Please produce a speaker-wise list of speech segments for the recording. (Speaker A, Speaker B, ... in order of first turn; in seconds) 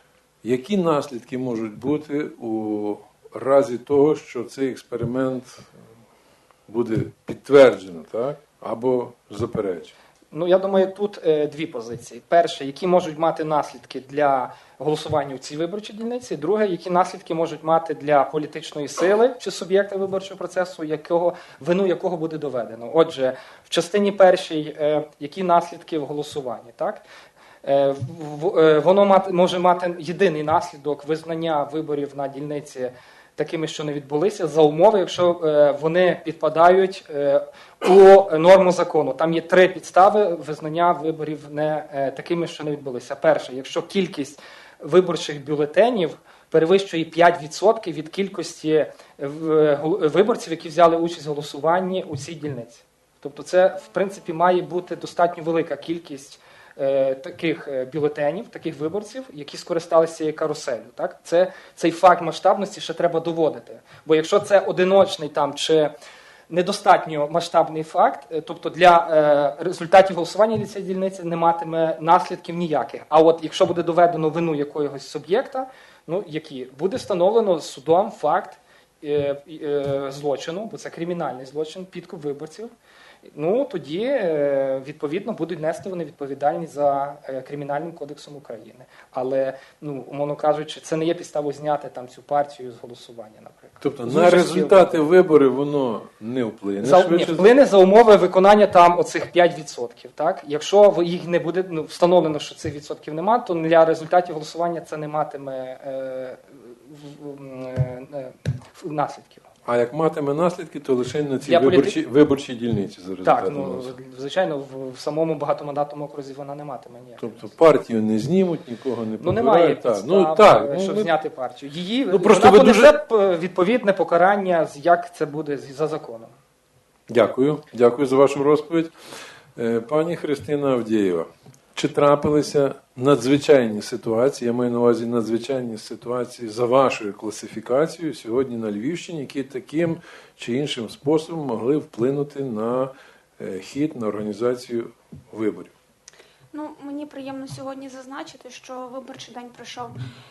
Speaker A: 0.4-5.7, 6.7-9.9, 93.8-97.5, 109.7-113.9, 117.2-121.1, 122.1-123.0, 127.1-128.9, 129.6-145.7
Speaker B: 10.3-27.0, 27.6-65.9, 66.5-82.7, 83.3-95.0, 96.8-109.5, 111.4-112.0, 113.2-117.5, 119.2-126.3
Speaker C: 146.5-149.9